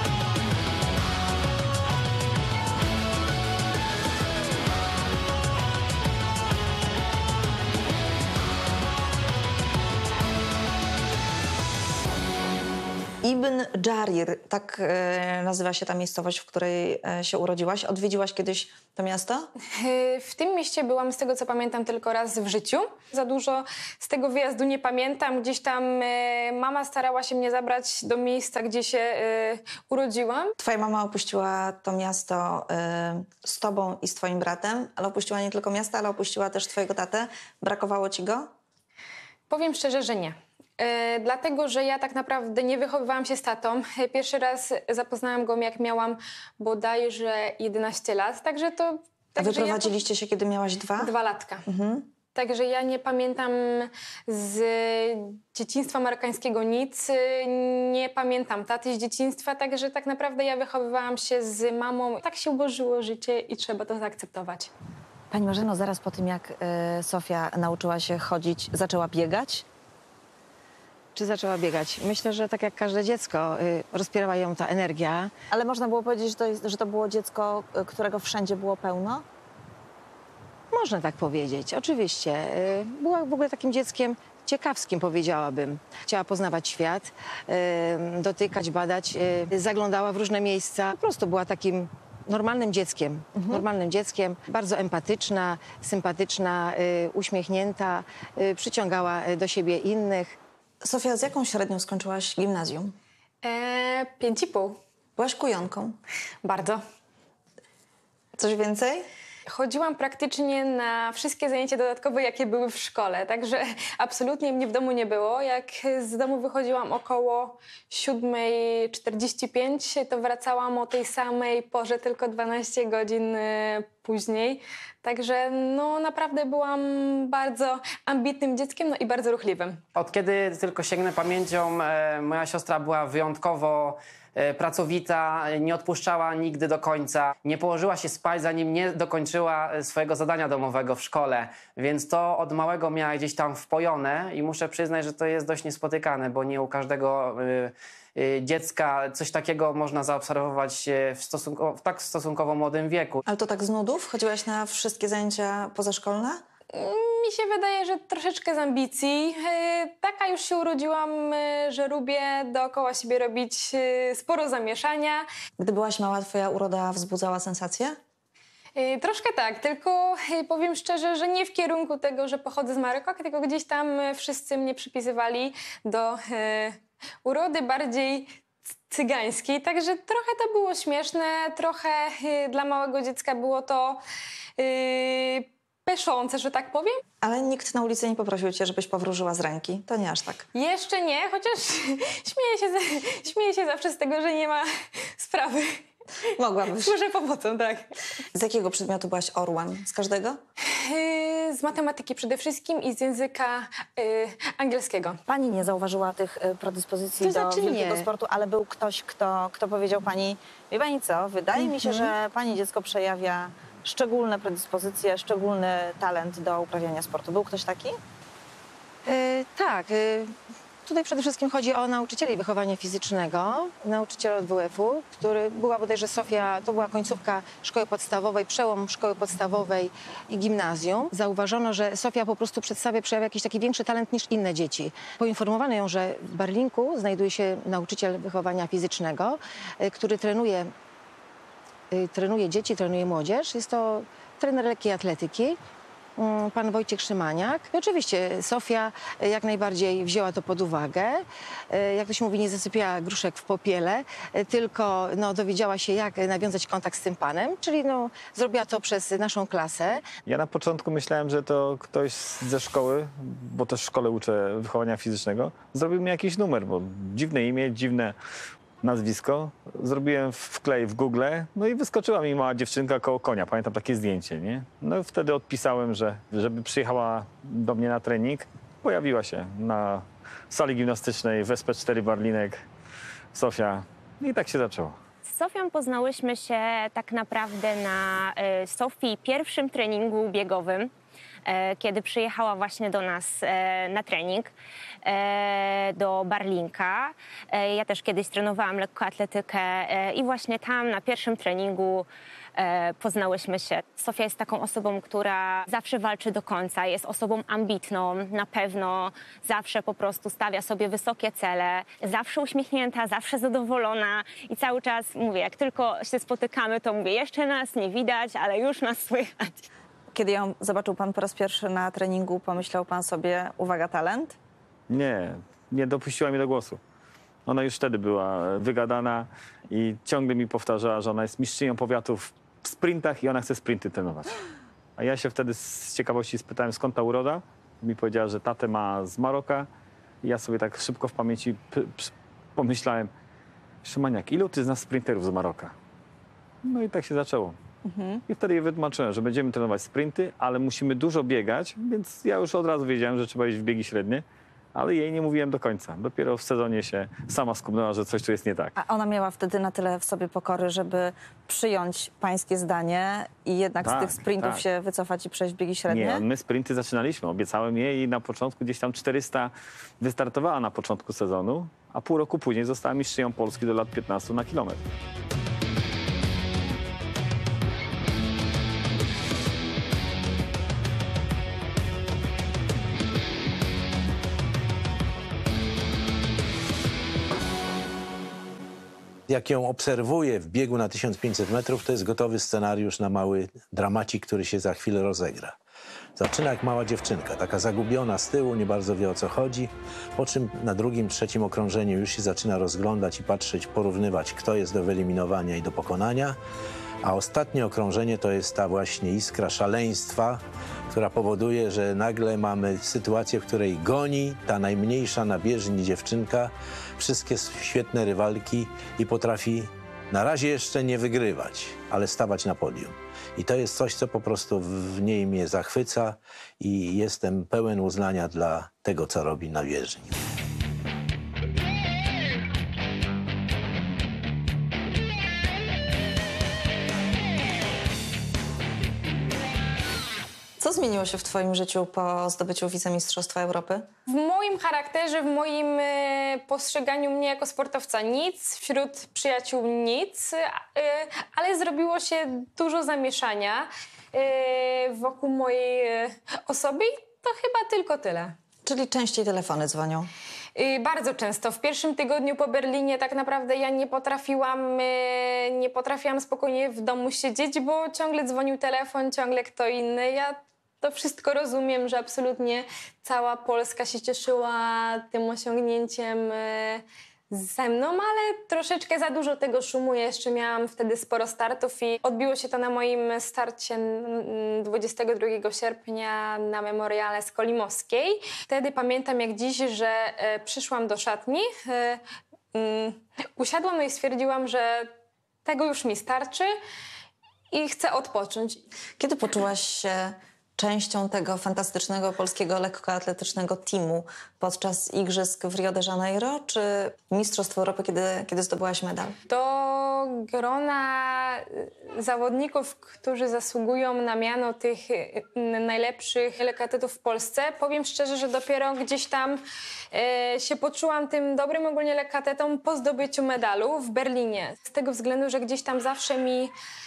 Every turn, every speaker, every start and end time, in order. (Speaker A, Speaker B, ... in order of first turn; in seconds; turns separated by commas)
Speaker A: 13.2-19.5, Speaker B: 19.7-30.5, Speaker A: 30.6-38.5, Speaker B: 39.5-50.0, Speaker A: 49.4-51.1, Speaker B: 51.0-51.6, Speaker A: 51.6-52.1, Speaker B: 52.3-64.7, Speaker A: 65.3-69.7, Speaker C: 71.1-75.3, Speaker A: 75.5-79.2, Speaker C: 80.7-100.4, Speaker A: 93.3-93.6, Speaker A: 100.8-103.0, Speaker B: 103.4-104.8, Speaker A: 105.2-106.0, Speaker B: 106.4-106.8, Speaker A: 108.3-109.1, Speaker B: 109.5-129.8, Speaker D: 129.9-153.2, Speaker A: 153.2-156.4, Speaker B: 156.7-165.2, Speaker A: 165.6-168.0, Speaker B: 168.8-178.4, Speaker B: 178.9-184.0, Speaker B: 184.6-187.0, Speaker A: 187.2-190.4, Speaker B: 190.5-195.8, Speaker A: 196.3-196.9, Speaker B: 196.8-197.9, Speaker A: 198.3-200.4, Speaker B: 200.7-205.2, Speaker A: 205.3-218.0, Speaker C: 207.2-208.1, Speaker C: 219.0-220.3, Speaker C: 220.8-240.7, Speaker C: 241.9-245.6, Speaker C: 246.2-260.0, Speaker E: 260.2-268.1, Speaker E: 268.8-282.6, Speaker E: 283.3-285.0, Speaker F: 285.2-290.9, Speaker F: 291.4-294.5, Speaker F: 295.0-319.7, Speaker A: 320.1-324.4, Speaker E: 324.9-326.8, Speaker E: 327.4-334.4, Speaker E: 335.0-339.7, Speaker E: 340.2-343.1, Speaker E: 343.8-345.7, Speaker E: 346.6-347.6, Speaker A: 347.8-348.2, Speaker E: 348.3-358.7, Speaker A: 358.8-366.2, Speaker E: 363.8-364.6, Speaker E: 365.9-374.8, Speaker G: 389.3-395.6, Speaker G: 396.1-406.4, Speaker G: 407.0-430.1, Speaker A: 440.6-443.9, Speaker B: 444.1-458.3, Speaker A: 458.6-460.1, Speaker B: 460.5-492.0, Speaker B: 492.5-494.9, Speaker B: 495.4-496.5, Speaker B: 497.5-498.6, Speaker A: 499.0-509.1, Speaker B: 509.3-519.4, Speaker B: 519.9-526.5